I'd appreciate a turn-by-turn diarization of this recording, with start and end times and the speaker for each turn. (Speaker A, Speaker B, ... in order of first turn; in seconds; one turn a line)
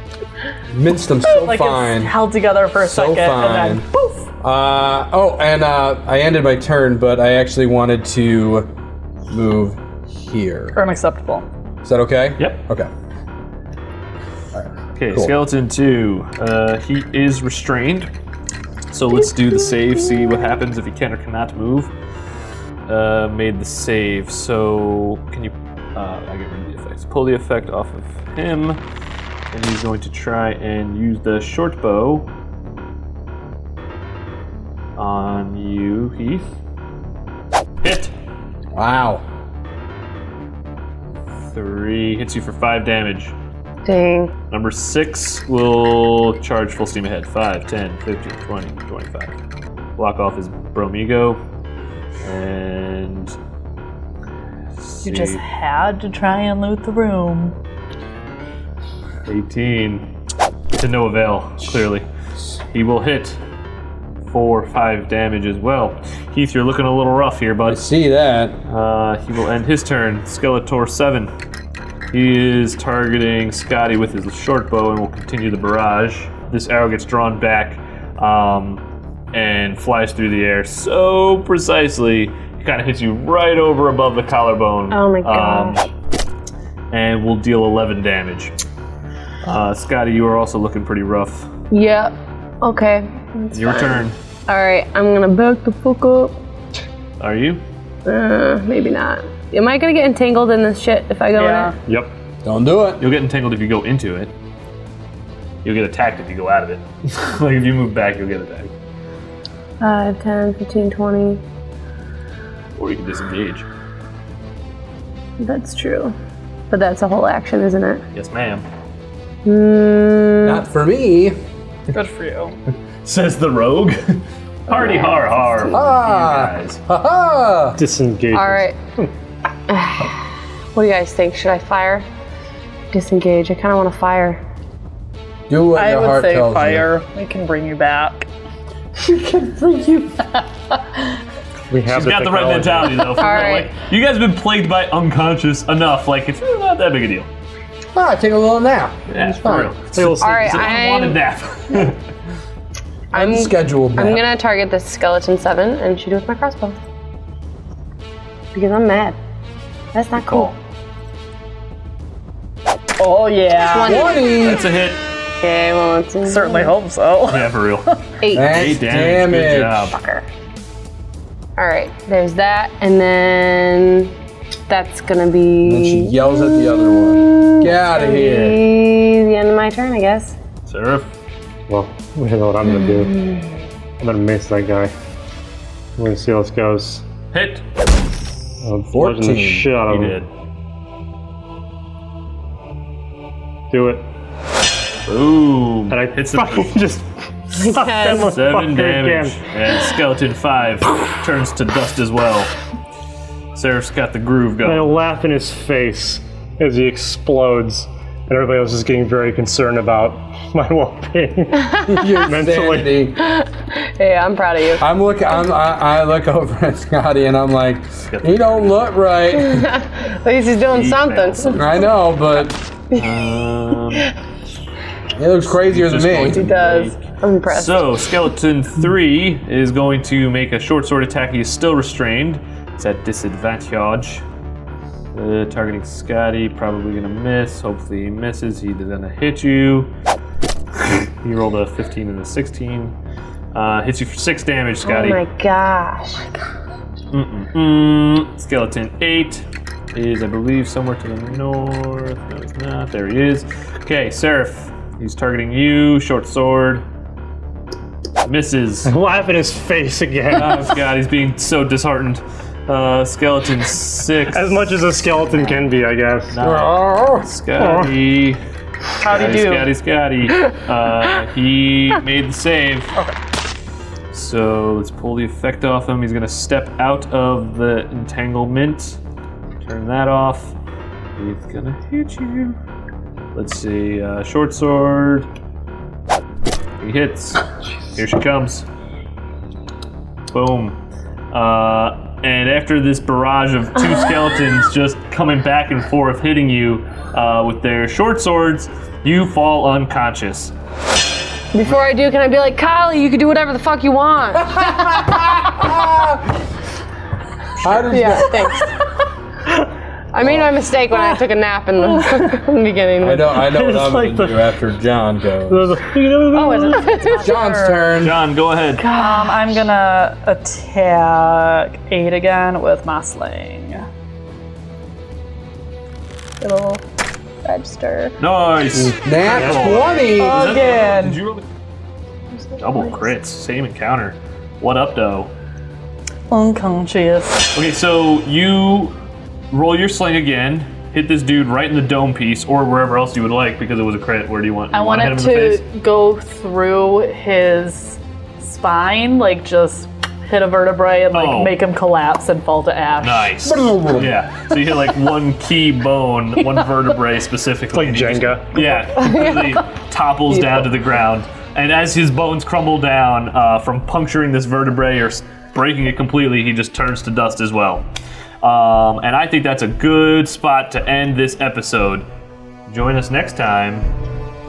Speaker A: 0.7-2.1
Speaker B: 1.2-4.3
Speaker A: 2.8-3.8
Speaker A: 4.4-8.7
Speaker A: 9.3-10.8
Speaker B: 10.7-11.5
Speaker A: 11.8-12.9
Speaker A: 14.5-15.3
Speaker C: 14.9-18.1
Speaker C: 18.9-21.9
Speaker C: 22.9-28.8
Speaker C: 29.5-32.3
Speaker C: 35.0-36.5
Speaker C: 37.8-38.1
Speaker A: 38.7-39.2
Speaker C: 41.5-43.3
Speaker D: 43.8-44.3
Speaker C: 44.5-49.3
Speaker C: 50.0-51.4
Speaker C: 52.2-53.4
Speaker C: 54.8-55.4
Speaker B: 55.0-57.5
Speaker C: 59.2-60.1
Speaker C: 60.8-62.1
Speaker C: 62.7-63.4
Speaker C: 64.3-67.8
Speaker A: 67.7-68.5
Speaker C: 68.7-71.3
Speaker C: 72.1-85.8
Speaker D: 84.9-85.8
Speaker C: 86.9-88.5
Speaker C: 89.4-91.5
Speaker D: 91.7-96.4
Speaker C: 93.5-94.2
Speaker C: 97.2-97.6
Speaker D: 98.0-101.7
Speaker B: 101.3-101.7
Speaker A: 102.4-103.0
Speaker C: 103.0-104.3
Speaker C: 105.6-108.7
Speaker D: 109.8-111.4
Speaker C: 112.8-113.7
Speaker D: 115.4-116.1
Speaker D: 116.7-118.0
Speaker C: 118.1-118.6
Speaker D: 119.4-120.6
Speaker A: 120.4-121.3
Speaker B: 121.9-122.5
Speaker C: 123.0-126.8
Speaker D: 124.7-125.8
Speaker A: 125.7-127.8
Speaker E: 127.8-129.1
Speaker D: 128.3-128.8
Speaker D: 129.7-132.1
Speaker D: 132.9-134.4
Speaker A: 135.5-136.9
Speaker B: 135.7-138.3
Speaker A: 139.0-140.2
Speaker E: 141.7-143.2
Speaker C: 141.9-147.3
Speaker D: 143.2-143.7
Speaker A: 147.9-149.7
Speaker C: 149.1-152.0
Speaker E: 149.9-150.8
Speaker D: 150.2-151.2
Speaker D: 153.1-156.8
Speaker A: 153.1-154.2
Speaker D: 158.5-159.2
Speaker D: 159.9-160.6
Speaker C: 160.3-160.5
Speaker B: 163.0-164.1
Speaker D: 163.6-164.4
Speaker A: 163.8-164.7
Speaker C: 164.4-165.0
Speaker D: 165.3-166.7
Speaker B: 166.2-167.6
Speaker C: 167.3-170.0
Speaker D: 168.2-168.6
Speaker A: 168.3-169.9
Speaker D: 169.9-170.2
Speaker D: 171.6-174.1
Speaker D: 174.7-180.3
Speaker A: 175.6-178.6
Speaker C: 180.7-181.1
Speaker E: 181.7-183.2
Speaker D: 182.7-183.4
Speaker E: 184.0-184.9
Speaker E: 186.0-187.0
Speaker C: 187.3-187.6
Speaker E: 188.6-190.2
Speaker A: 188.9-189.7
Speaker C: 189.9-190.3
Speaker E: 193.7-194.0
Speaker C: 195.1-196.7
Speaker E: 195.9-199.5
Speaker D: 197.6-198.3
Speaker C: 198.1-202.5
Speaker C: 203.5-204.9
Speaker E: 204.6-213.1
Speaker A: 211.9-213.2
Speaker D: 213.2-214.8
Speaker A: 214.8-219.7
Speaker C: 218.1-218.8
Speaker D: 219.3-221.9
Speaker C: 220.7-221.9
Speaker A: 221.6-222.6
Speaker C: 222.9-224.1
Speaker A: 225.2-226.4
Speaker C: 225.4-234.2
Speaker D: 226.3-227.9
Speaker C: 235.1-239.9
Speaker C: 240.8-242.9
Speaker C: 243.5-245.2
Speaker D: 244.8-246.4
Speaker C: 247.1-256.8
Speaker C: 258.2-258.9
Speaker E: 258.8-260.8
Speaker C: 260.3-264.7
Speaker E: 264.3-266.4
Speaker C: 266.3-268.4
Speaker A: 266.4-267.3
Speaker E: 267.6-267.9
Speaker B: 269.0-269.7
Speaker C: 269.0-272.9
Speaker C: 274.1-279.0
Speaker C: 279.6-280.5
Speaker C: 281.2-282.6
Speaker C: 283.3-285.3
Speaker C: 286.8-288.6
Speaker C: 290.3-290.8
Speaker C: 291.3-300.5
Speaker D: 301.5-305.2
Speaker A: 304.6-306.2
Speaker A: 307.6-308.5
Speaker D: 307.9-308.7
Speaker D: 310.1-313.4
Speaker A: 310.2-310.5
Speaker A: 313.0-315.7
Speaker E: 313.4-314.5
Speaker E: 315.5-317.1
Speaker B: 316.3-317.9
Speaker D: 317.0-317.3
Speaker A: 317.2-318.2
Speaker C: 318.0-318.9
Speaker D: 318.7-319.6
Speaker B: 318.9-323.9
Speaker B: 326.4-326.8
Speaker D: 327.4-328.1
Speaker C: 328.2-331.5
Speaker E: 328.8-329.8
Speaker A: 329.0-330.5
Speaker B: 330.1-331.2
Speaker D: 332.3-333.1
Speaker C: 332.6-335.3
Speaker B: 336.3-337.5
Speaker C: 337.5-338.9
Speaker C: 339.5-345.6
Speaker B: 344.7-353.3
Speaker C: 351.1-351.6
Speaker C: 353.0-367.8
Speaker A: 353.4-354.2
Speaker E: 357.7-358.5
Speaker D: 358.6-359.7
Speaker D: 360.3-360.7
Speaker C: 368.4-372.0
Speaker C: 372.7-373.9